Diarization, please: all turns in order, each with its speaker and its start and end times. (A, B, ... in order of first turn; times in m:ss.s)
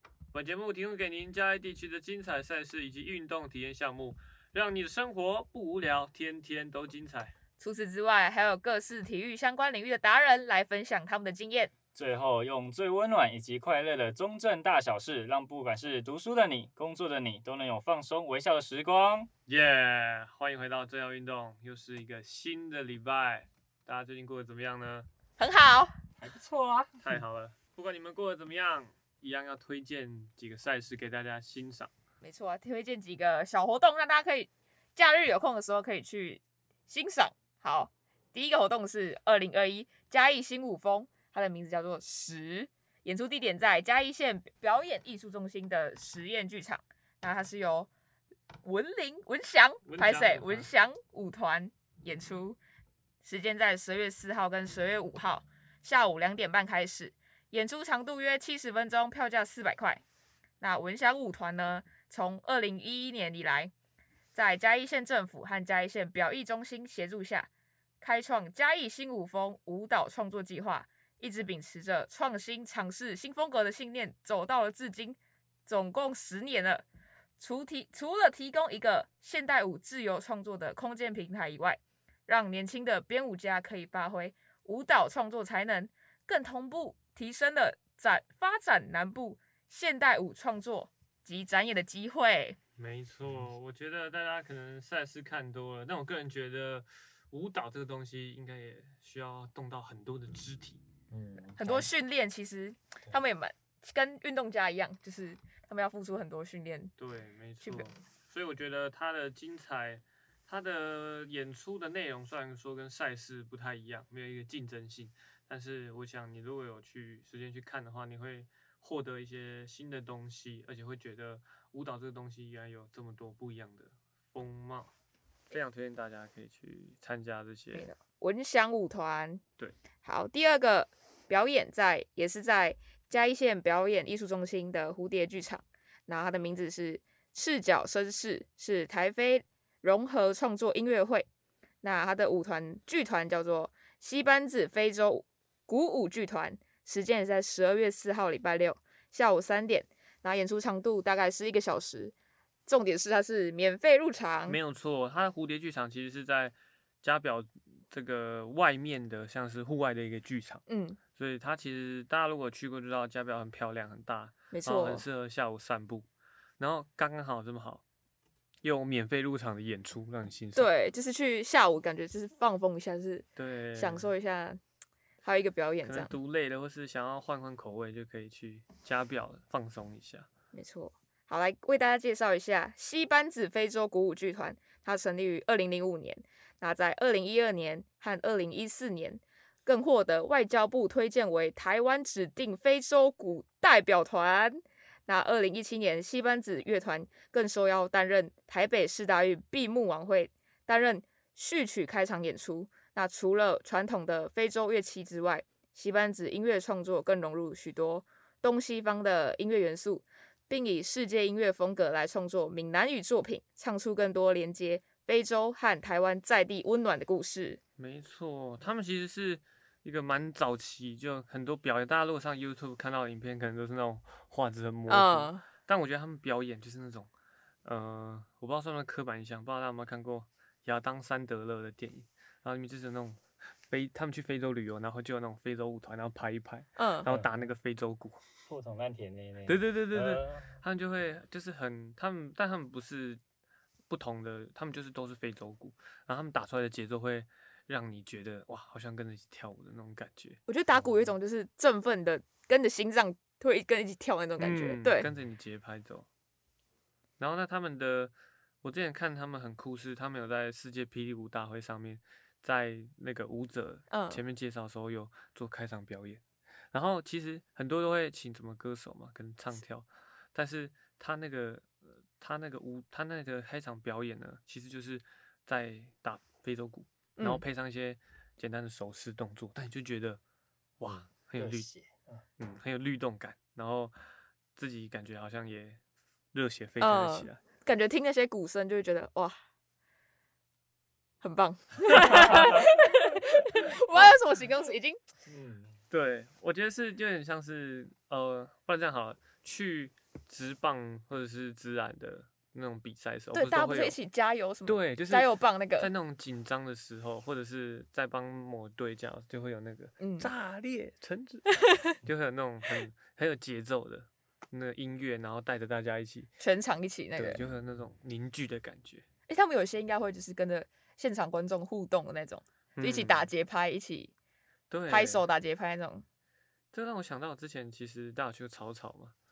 0:00.3-0:07.3 A
0:07.6-0:11.7 B
0:12.0-0:19.3 C
0:19.5-0:25.1 A
0:25.4-0:25.9 B
0:26.2-0:26.9 C
0:27.0-0:31.9 A
0:32.2-0:47.9 B
0:48.6-0:52.6 B
0:49.8-0:50.7 A
0:53.2-1:00.0 B
1:00.6-1:03.7 B
1:04.3-1:07.5 B
1:08.0-1:16.8 B
1:17.4-1:32.6 B
1:32.8-1:40.8 A
1:41.1-1:41.9 C
1:41.6-1:46.9 B
1:47.0-2:04.9 A
1:47.6-1:47.9 B
2:05.5-2:07.9 A
2:07.7-2:09.4 B
2:10.0-2:21.3 B
2:21.8-2:32.1 B
2:32.7-2:34.6 B
2:34.5-2:40.6 A
2:40.7-2:41.0 B
2:41.2-2:46.1 A
2:44.5-2:45.1 B
2:46.6-2:47.8 A
2:48.6-2:50.7 A
2:50.6-2:54.6 B
2:53.4-2:54.1 A
2:55.2-2:56.1 B
2:55.8-3:00.3 A
3:00.5-3:37.6 B
3:37.8-3:47.1 A
3:44.9-3:45.5 B
3:47.6-3:58.2 A
3:56.8-3:57.1 B
3:57.1-3:57.5 C
3:58.5-4:00.6 C
3:59.5-4:03.2 A
4:03.9-4:10.4 A
4:10.5-4:15.1 B
4:14.4-4:16.1 A
4:17.2-4:40.2 A
4:23.9-4:24.2 B
4:37.2-4:37.4 B
4:40.8-4:41.7 A
4:41.4-4:42.2 C
4:42.4-4:44.0 A
4:44.6-4:45.8 A
4:46.3-4:47.4 A
4:46.8-4:49.4 B
4:51.2-4:55.0 B
4:52.0-4:52.6 A
4:55.3-4:55.8 C
4:55.9-5:04.0 A
5:03.3-5:05.9 B
5:04.6-5:16.3 A
5:10.0-5:10.3 B
5:16.4-5:17.4 B
5:17.1-5:19.0 A
5:19.3-5:24.1 B
5:22.8-5:23.3 A
5:24.7-5:25.3 A
5:24.9-5:26.0 B
5:26.7-5:29.1 A